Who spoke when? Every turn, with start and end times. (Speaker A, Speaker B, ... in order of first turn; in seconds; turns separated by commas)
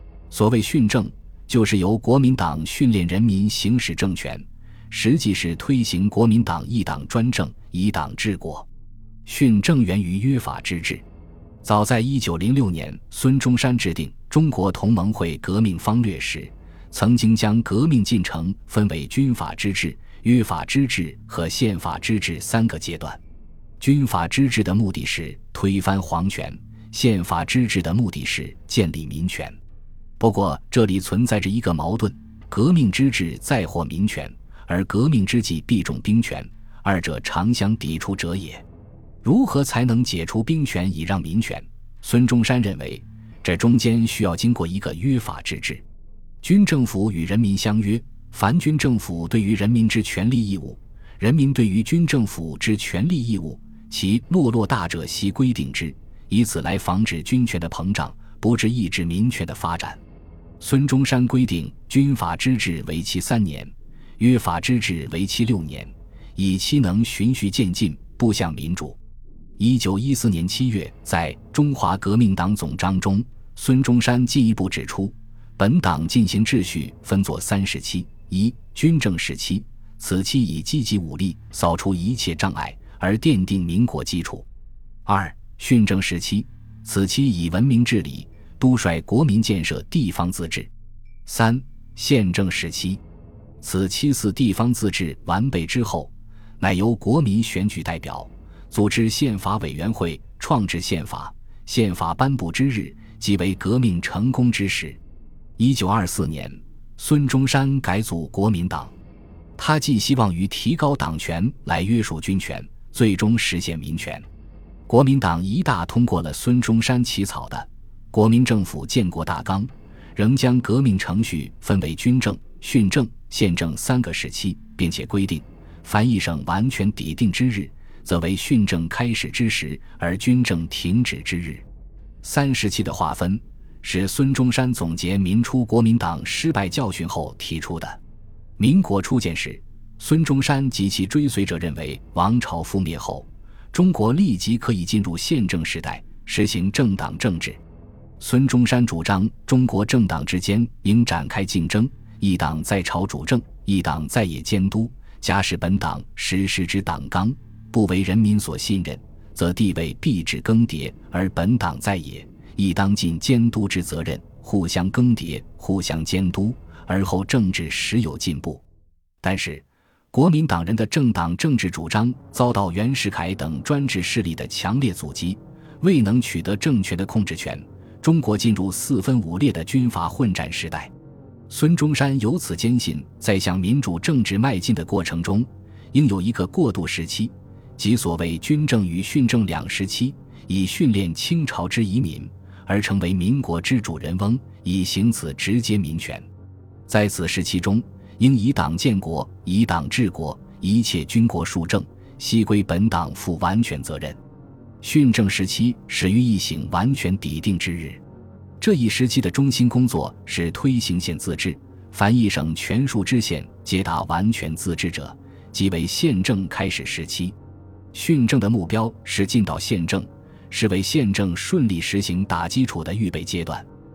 Speaker A: 0.3-8.7, Speaker A: 9.2-11.0, Speaker A: 11.6-23.2, Speaker A: 23.8-29.6, Speaker A: 30.2-38.6, Speaker A: 39.2-45.8, Speaker A: 46.4-60.0, Speaker A: 60.6-69.0, Speaker A: 69.6-84.5, Speaker A: 85.0-90.7, Speaker A: 91.2-93.0, Speaker A: 93.6-105.0, Speaker A: 105.6-108.9, Speaker A: 109.6-114.3, Speaker A: 114.9-131.7, Speaker A: 132.2-138.0, Speaker A: 138.6-147.6, Speaker A: 148.2-168.6, Speaker A: 169.2-180.9, Speaker A: 181.5-196.3, Speaker A: 196.9-204.2, Speaker A: 204.8-208.0, Speaker A: 208.6-217.4, Speaker A: 217.9-223.7